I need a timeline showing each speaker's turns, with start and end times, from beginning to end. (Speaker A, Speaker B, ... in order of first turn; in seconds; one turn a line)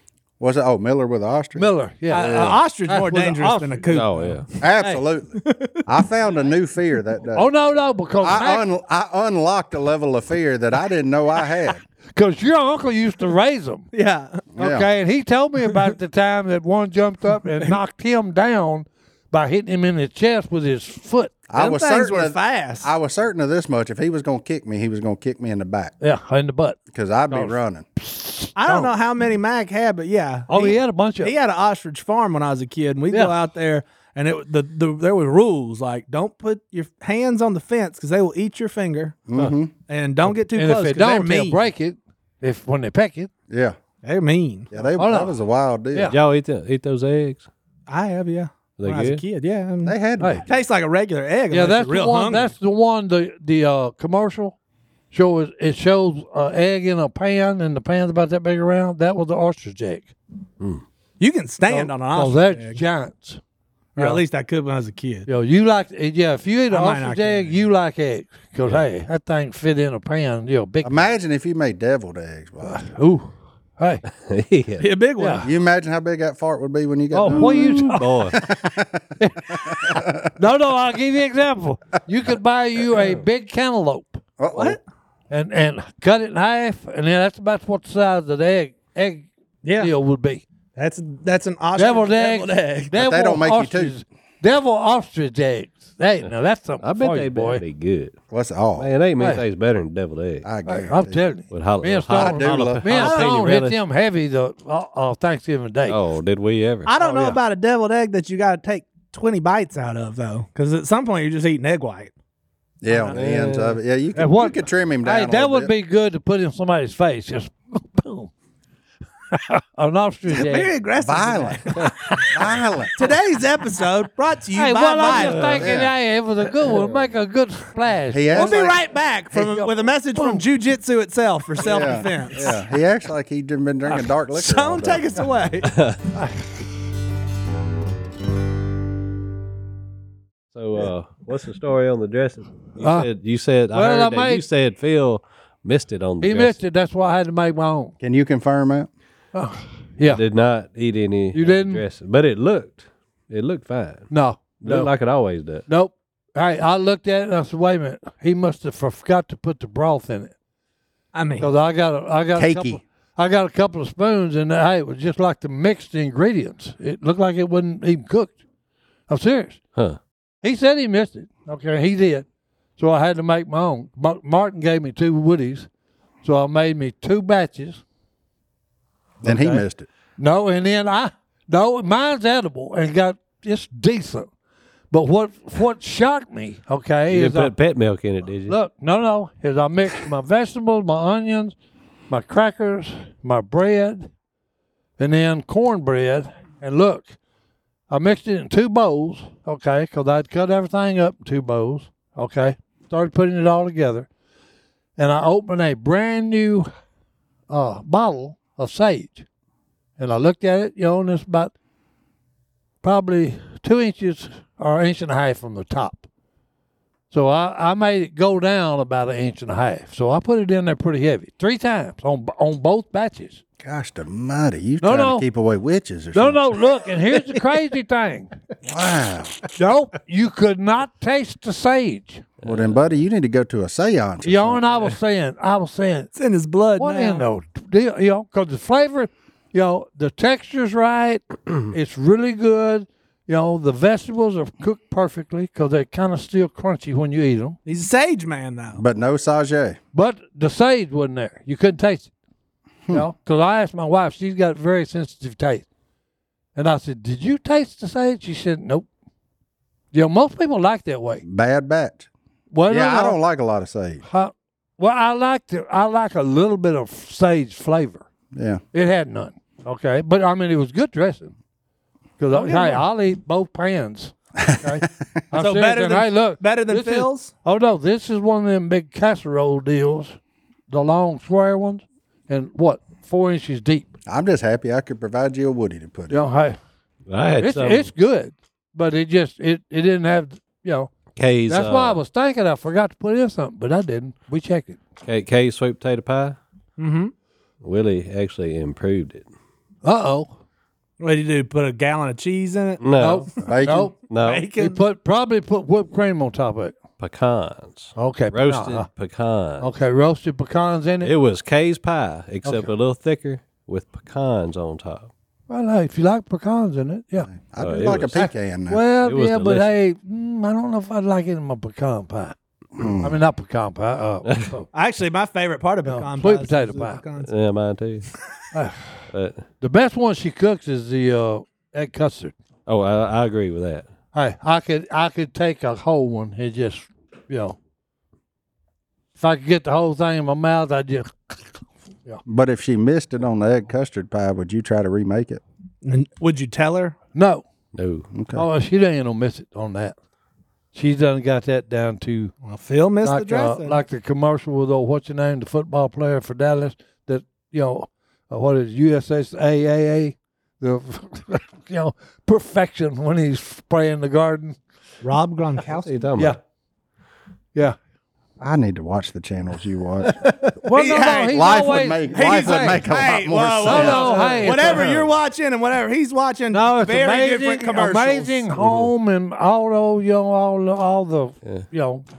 Speaker A: 0.4-2.5
Speaker B: 1.6-4.4
Speaker C: 2.1-5.9
Speaker D: 3.9-4.5
Speaker A: 4.6-7.5
Speaker B: 7.3-8.7
Speaker A: 8.2-11.8
Speaker B: 12.1-13.9
Speaker C: 13.9-14.4
Speaker A: 14.6-14.9
Speaker B: 14.6-21.4
Speaker A: 21.5-25.9
Speaker C: 21.6-22.9
Speaker B: 26.0-26.8
Speaker A: 26.9-27.9
Speaker B: 27.3-28.9
Speaker C: 28.6-39.2
Speaker B: 30.5-31.3
Speaker B: 33.1-33.4
Speaker A: 39.3-39.7
Speaker C: 39.9-41.6
Speaker B: 40.3-43.3
Speaker A: 43.5-43.8
Speaker C: 44.0-44.7
Speaker A: 44.7-46.1
Speaker B: 45.0-45.4
Speaker D: 46.1-47.5
Speaker C: 47.9-52.5
Speaker D: 48.8-49.2
Speaker A: 49.9-50.5
Speaker B: 50.2-50.4
Speaker B: 51.5-54.6
Speaker B: 55.1-60.1
Speaker C: 61.2-62.8
Speaker B: 61.7-63.4
Speaker B: 64.0-64.2
Speaker C: 64.0-65.3
Speaker B: 65.3-71.1
Speaker C: 66.7-67.6
Speaker A: 70.8-72.8
Speaker B: 72.6-74.0
Speaker D: 74.2-74.9
Speaker C: 74.8-75.5
Speaker B: 75.2-75.5
Speaker A: 75.4-80.3
Speaker B: 77.1-78.3
Speaker D: 77.3-78.3
Speaker B: 79.2-79.5
Speaker B: 80.4-84.2
Speaker A: 84.4-84.8
Speaker C: 84.5-84.8
Speaker B: 85.3-90.4
Speaker C: 89.6-89.9
Speaker C: 90.8-93.0
Speaker B: 91.8-97.6
Speaker A: 93.0-94.0
Speaker D: 96.8-98.1
Speaker A: 98.3-98.9
Speaker D: 98.8-100.5
Speaker A: 100.4-101.3
Speaker B: 100.7-106.0
Speaker D: 101.5-103.8
Speaker A: 102.1-102.9
Speaker C: 103.0-103.2
Speaker D: 105.9-106.9
Speaker C: 106.9-112.1
Speaker B: 107.0-107.4
Speaker A: 112.8-115.7
Speaker D: 113.1-113.8
Speaker B: 114.2-118.3
Speaker B: 119.3-120.7
Speaker C: 120.3-121.9
Speaker A: 121.0-121.7
Speaker A: 122.3-122.9
Speaker C: 123.0-125.6
Speaker B: 124.5-128.6
Speaker D: 125.1-125.7
Speaker A: 125.6-125.9
Speaker A: 128.1-128.8
Speaker C: 128.3-132.5
Speaker B: 129.3-130.4
Speaker A: 131.6-135.1
Speaker C: 134.3-135.8
Speaker D: 135.7-136.0
Speaker D: 140.5-146.6
Speaker B: 142.8-143.1
Speaker B: 143.7-144.4
Speaker B: 146.2-147.9
Speaker A: 148.0-148.9
Speaker B: 149.3-150.2
Speaker D: 150.1-154.1
Speaker B: 151.3-151.8
Speaker B: 154.1-154.9
Speaker D: 154.6-155.7
Speaker B: 155.7-160.3
Speaker C: 161.1-161.5
Speaker B: 161.4-168.4
Speaker A: 162.4-162.8
Speaker B: 169.1-169.6
Speaker B: 170.4-172.3
Speaker B: 172.8-175.7
Speaker B: 176.2-177.8
Speaker B: 179.2-179.6
Speaker A: 179.2-179.9
Speaker B: 180.2-184.3
Speaker B: 184.9-187.5
Speaker D: 187.1-188.6
Speaker B: 188.5-191.6
Speaker B: 192.1-194.1
Speaker B: 195.0-197.2
Speaker B: 197.9-204.1
Speaker B: 205.0-206.7
Speaker B: 207.5-209.3
Speaker B: 210.0-211.5
Speaker B: 212.8-216.1
Speaker B: 217.1-223.4
Speaker A: 223.6-226.6
Speaker B: 224.8-225.3
Speaker B: 226.1-228.3
Speaker A: 228.6-229.4
Speaker B: 229.6-232.2
Speaker A: 232.4-234.6
Speaker B: 234.2-236.1
Speaker C: 236.2-237.2
Speaker B: 236.8-247.6
Speaker C: 247.7-248.8
Speaker A: 248.8-249.8
Speaker B: 249.9-252.1
Speaker B: 252.9-255.7
Speaker B: 256.6-258.9
Speaker B: 259.9-261.2
Speaker A: 261.2-262.1
Speaker B: 262.5-263.2
Speaker A: 262.7-264.0
Speaker B: 264.1-268.1
Speaker A: 268.3-268.6
Speaker B: 268.7-271.3
Speaker B: 272.2-280.2
Speaker C: 272.4-272.8
Speaker A: 274.4-274.9
Speaker C: 275.4-277.3
Speaker B: 280.7-283.9
Speaker A: 284.1-286.2
Speaker B: 286.1-286.6
Speaker D: 287.1-287.9
Speaker B: 287.4-290.9
Speaker D: 291.2-292.0
Speaker B: 291.5-294.8
Speaker D: 295.0-296.4
Speaker C: 296.8-297.1
Speaker D: 297.6-299.3
Speaker B: 299.8-300.3
Speaker C: 301.0-302.8
Speaker D: 302.8-303.3
Speaker B: 303.0-304.0
Speaker A: 303.4-303.9
Speaker D: 304.1-304.5
Speaker C: 304.2-304.8
Speaker B: 304.6-306.8
Speaker D: 307.0-309.7
Speaker B: 308.0-308.9
Speaker B: 309.6-311.1
Speaker D: 311.0-315.1
Speaker B: 312.4-312.7
Speaker B: 315.5-317.3
Speaker A: 317.3-318.8
Speaker D: 317.6-318.2
Speaker B: 318.1-322.4
Speaker D: 319.0-319.7
Speaker A: 322.8-323.2
Speaker B: 323.0-324.7
Speaker C: 324.7-327.3
Speaker B: 325.9-327.0
Speaker D: 327.2-328.1
Speaker B: 328.5-328.9
Speaker D: 329.1-329.4
Speaker B: 329.6-332.3
Speaker D: 332.7-333.9
Speaker B: 334.1-337.6
Speaker B: 339.2-341.5
Speaker A: 342.3-345.4
Speaker C: 345.8-347.0
Speaker B: 347.1-347.5
Speaker D: 347.7-348.1
Speaker A: 348.1-348.4
Speaker B: 348.3-350.0
Speaker B: 350.7-352.3
Speaker C: 352.4-353.8
Speaker B: 353.0-364.6
Speaker C: 365.0-365.9
Speaker D: 365.8-366.4
Speaker A: 368.4-370.2
Speaker B: 370.6-372.9
Speaker C: 370.7-371.6
Speaker A: 371.3-374.2
Speaker C: 372.1-378.5
Speaker B: 373.6-375.1
Speaker D: 373.9-374.9
Speaker B: 376.5-382.1
Speaker D: 378.6-378.9